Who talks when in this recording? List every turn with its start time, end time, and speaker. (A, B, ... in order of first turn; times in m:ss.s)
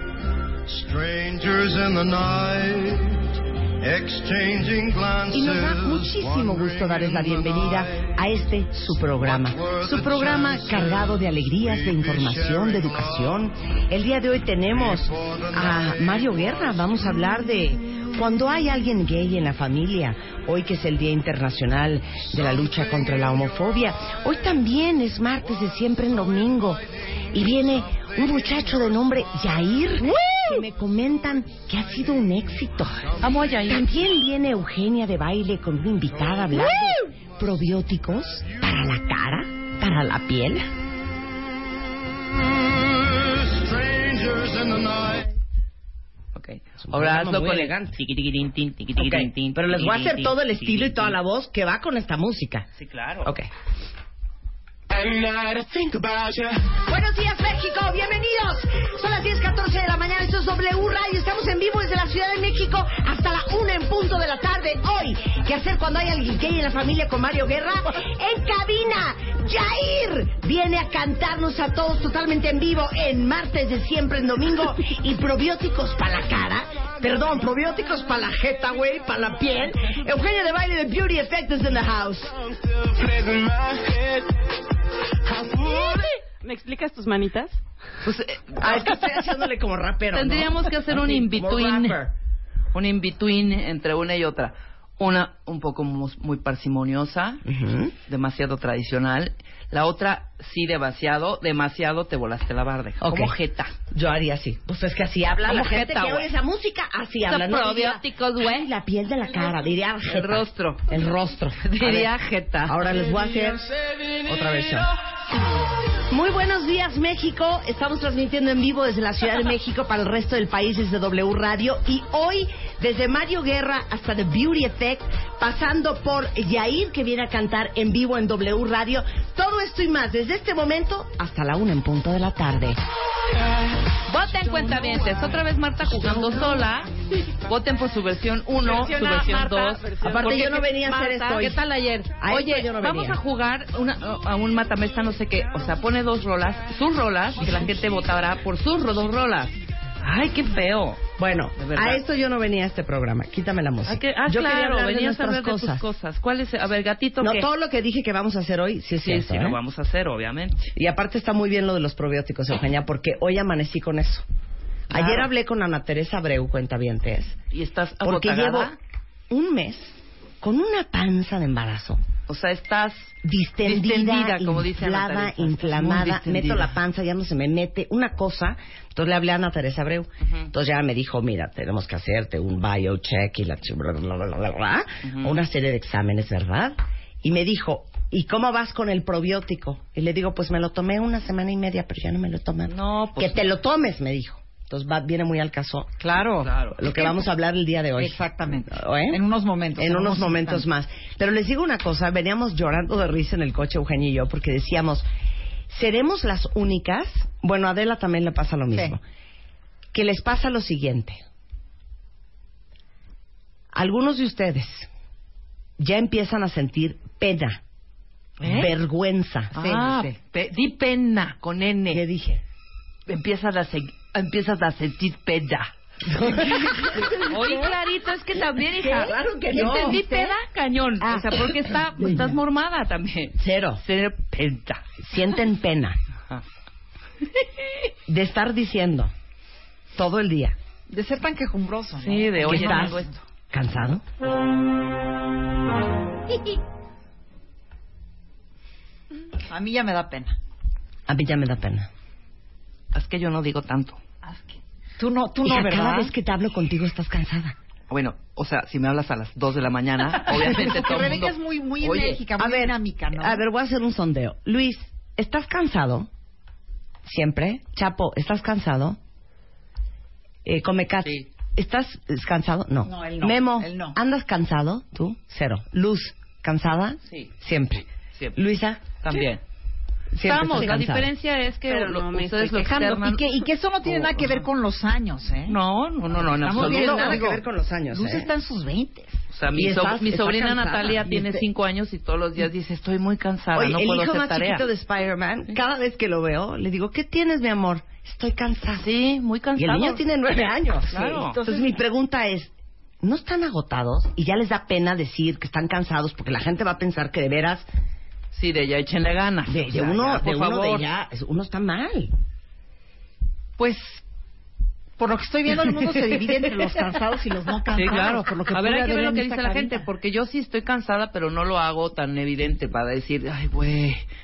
0:00.7-0:08.1 A
0:05.3-0:40.6 B
0:09.2-0:13.4 A
0:14.7-0:16.6 A
0:33.2-0:33.9 C
0:42.4-0:45.4 A
0:46.4-0:51.1 C
0:46.8-0:48.0 B
0:48.9-0:52.7 B
0:52.8-0:53.3 C
0:54.9-0:56.8 D
0:56.8-1:22.4 B
1:22.6-1:24.5 D
1:25.2-1:26.2 D
1:26.4-1:27.6 E
1:28.0-1:28.9 C
1:28.5-1:32.1 B
1:30.1-1:32.0 C
1:32.7-1:37.4 C
1:37.4-1:37.9 B
1:38.1-1:43.7 C
1:43.0-1:52.1 B
1:45.4-1:46.3 C
1:47.3-1:48.7 C
1:50.0-1:50.9 C
1:51.6-1:52.9 C
1:52.6-1:53.7 B
1:54.2-1:54.9 B
1:56.1-2:12.8 B
2:13.3-2:13.7 D
2:14.0-2:31.0 C
2:14.7-2:15.1 D
2:18.6-2:20.7 E
2:20.0-2:21.6 B
2:22.2-2:23.2 B
2:31.2-2:35.9 B
2:31.6-2:32.0 C
2:33.8-2:37.5 C
2:37.2-2:39.6 B
2:39.0-2:40.7 C
2:40.8-2:44.2 B
2:44.9-2:47.4 B
2:44.9-2:45.3 C
2:47.5-2:48.8 C
2:48.0-2:48.7 B
2:49.3-2:52.0 B
2:52.3-2:56.8 C
2:53.2-3:15.9 B
3:00.2-3:00.5 C
3:05.0-3:05.4 C
3:12.7-3:13.4 C
3:16.0-3:16.5 F
3:16.4-3:16.8 C
3:16.8-3:19.2 B
3:18.0-3:20.6 F
3:19.8-3:25.1 B
3:25.7-3:29.0 B
3:29.9-3:31.2 B
3:33.7-3:34.9 B
3:35.8-3:37.6 B
3:38.4-3:38.7 C
3:38.4-3:39.6 B
3:39.5-3:42.0 C
3:39.6-3:40.1 F
3:41.9-3:42.4 B
3:43.1-3:54.8 C
3:46.1-3:47.6 B
3:48.7-3:50.3 B
3:51.0-3:52.4 B
3:53.4-3:53.8 B
3:55.0-3:56.0 B
3:58.1-3:59.1 B
4:00.0-4:00.6 B
4:00.9-4:03.2 F
4:02.0-4:03.1 C
4:02.5-4:03.0 B
4:03.5-4:04.0 B
4:09.5-4:10.4 F
4:11.1-4:11.9 B
4:12.9-4:14.0 C
4:14.2-4:16.1 F
4:15.4-4:17.6 B
4:17.9-4:22.2 C
4:20.1-4:23.4 F
4:22.4-4:26.1 B
4:27.0-4:29.0 B
4:30.4-4:38.8 B
4:32.8-4:34.0 F
4:39.0-4:39.4 C
4:40.1-4:41.1 B
4:40.2-4:43.2 C
4:41.6-4:42.6 E
4:42.5-4:45.6 F
4:43.8-4:44.5 C
4:45.5-4:47.2 C
4:46.1-4:49.2 F
4:46.6-4:48.3 B
4:49.3-4:54.7 C
4:49.5-4:51.2 B
4:53.6-4:58.9 B
4:58.8-5:00.0 C
4:59.6-5:02.5 B
5:00.9-5:01.4 C
5:01.1-5:01.6 F
5:03.0-5:07.7 B
5:08.3-5:10.9 C
5:09.5-5:12.1 B
5:13.6-5:14.0 F
5:15.0-5:19.9 F
5:17.7-5:24.0 C